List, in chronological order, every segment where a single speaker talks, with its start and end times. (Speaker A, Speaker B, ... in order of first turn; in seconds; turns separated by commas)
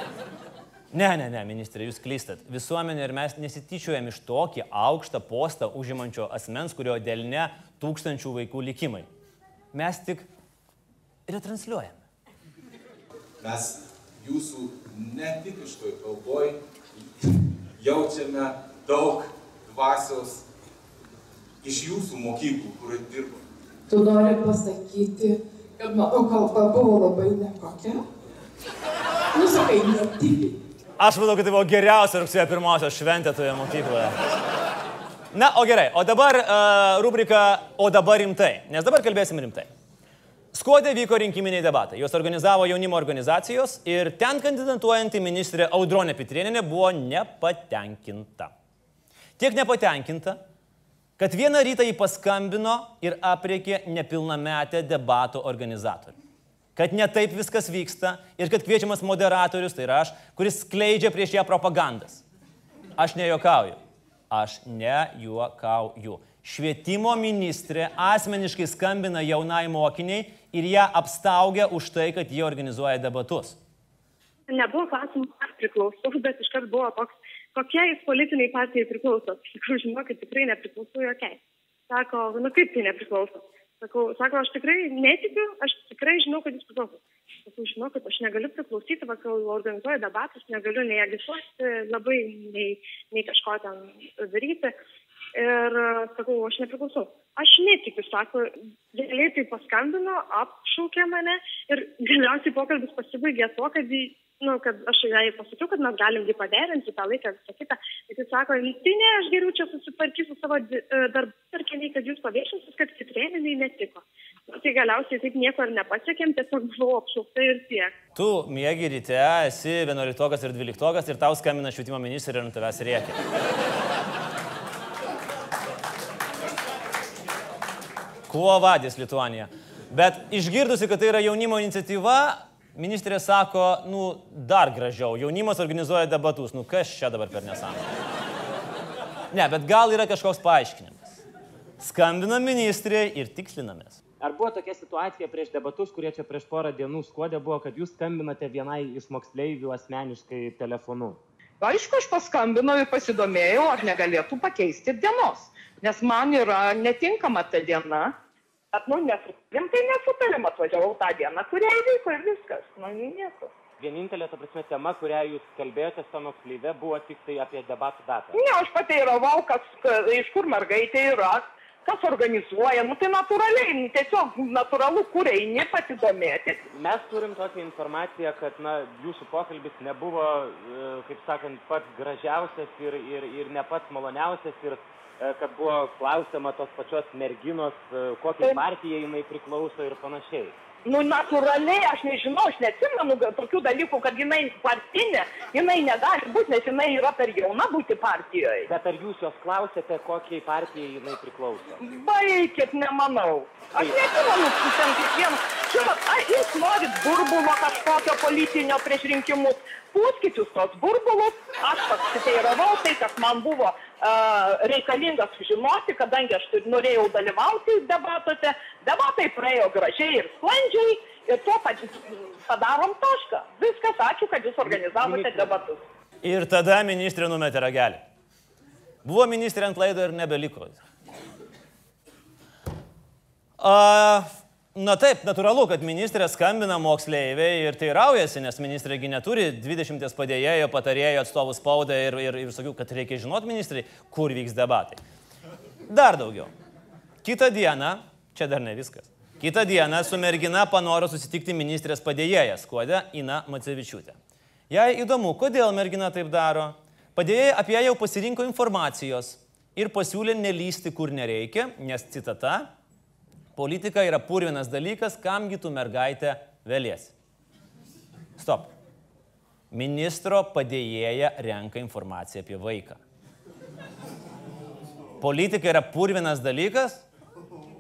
Speaker A: 0.9-9.1, Speaker A: 9.7-10.3, Speaker A: 11.3-12.0, Speaker B: 13.4-20.4, Speaker B: 21.6-23.4, Speaker C: 23.9-28.1, Speaker C: 29.3-30.6, Speaker A: 31.0-34.1, Speaker A: 35.3-39.7, Speaker A: 40.5-48.5, Speaker A: 49.4-50.4, Speaker A: 51.2-56.1, Speaker A: 56.7-62.2, Speaker A: 63.0-63.8, Speaker A: 64.3-73.6, Speaker D: 74.5-81.4, Speaker D: 81.9-94.7, Speaker D: 95.3-117.9, Speaker A: 118.2-123.2, Speaker A: 128.3-137.8, Speaker A: 139.3-141.2, Speaker A: 141.8-144.0, Speaker E: 144.2-151.2, Speaker F: 151.6-158.1, Speaker F: 158.7-163.5, Speaker E: 163.8-168.4, Speaker F: 168.3-176.6, Speaker E: 176.7-190.6, Speaker F: 190.9-198.7, Speaker E: 198.7-201.8, Speaker F: 201.8-225.8, Speaker E: 224.6-225.6, Speaker A: 226.2-228.0, Speaker A: 229.0-230.8, Speaker A: 233.6-245.0, Speaker A: 245.9-246.5, Speaker A: 247.2-254.2, Speaker A: 254.7-262.7, Speaker A: 263.6-267.1, Speaker A: 268.4-268.7, Speaker A: 269.7-273.0, Speaker A: 275.2-277.0